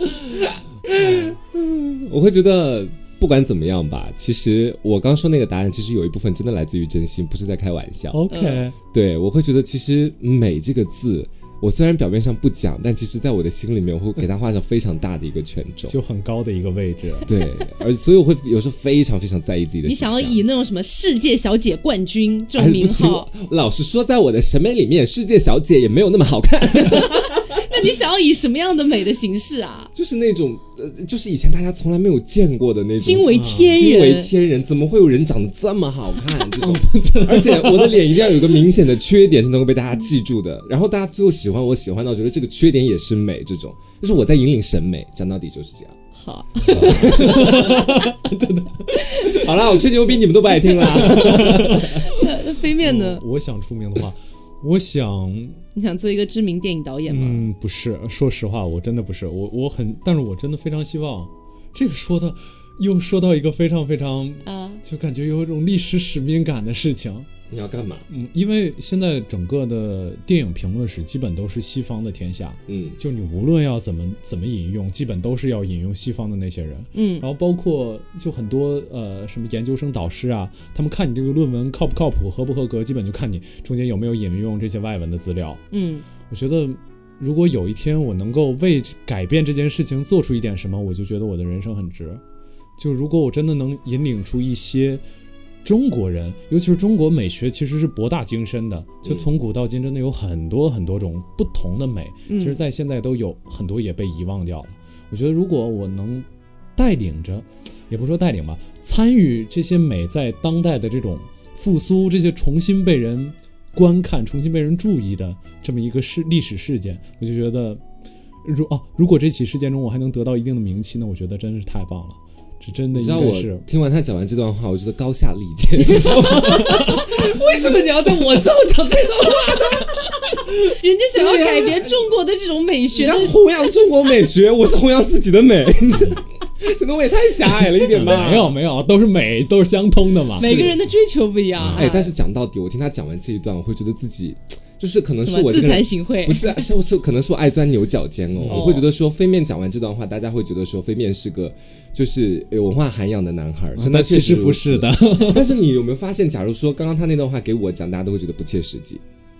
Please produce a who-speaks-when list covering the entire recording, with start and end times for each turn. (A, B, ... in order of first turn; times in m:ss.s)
0:00.4-0:08.2 A
0:01.0-0:01.4 B
0:08.1-0:08.8 B
0:08.3-0:08.6 C
0:08.9-0:16.0 A
0:15.9-0:17.3 B
0:17.3-0:20.4 A
0:19.8-0:23.3 C
0:22.6-0:27.7 A
0:26.7-0:29.9 C
0:29.9-0:46.0 A
0:33.0-0:34.3 C
0:33.3-0:33.8 B
0:36.6-0:38.4 B
0:46.2-0:47.8 C
0:46.7-0:49.8 B
0:46.7-0:47.9 A
0:49.0-0:49.4 C
0:49.2-0:52.0 A
0:50.6-0:53.2 C
0:50.8-0:55.6 B
0:55.8-0:57.5 C
0:57.1-1:07.3 B
1:04.4-1:04.8 C
1:07.5-1:08.1 A
1:08.1-1:25.6 B
1:12.7-1:13.0 A
1:16.9-1:17.3 C
1:25.7-1:26.1 C
1:26.3-1:32.2 B
1:32.8-1:35.0 B
1:35.6-1:57.8 B
1:42.3-1:42.6 C
1:58.4-2:03.6 B
2:02.9-2:10.5 A
2:05.8-2:06.8 C
2:06.3-2:07.2 B
2:10.5-2:13.4 C
2:11.1-2:12.1 A
2:12.9-2:18.6 A
2:17.9-2:20.6 B
2:20.4-2:20.8 A
2:20.4-2:22.1 C
2:21.6-2:21.9 B
2:21.7-2:39.0 A
2:25.2-2:26.7 C
2:28.4-2:28.8 B
2:28.5-2:28.9 C
2:33.8-2:35.6 B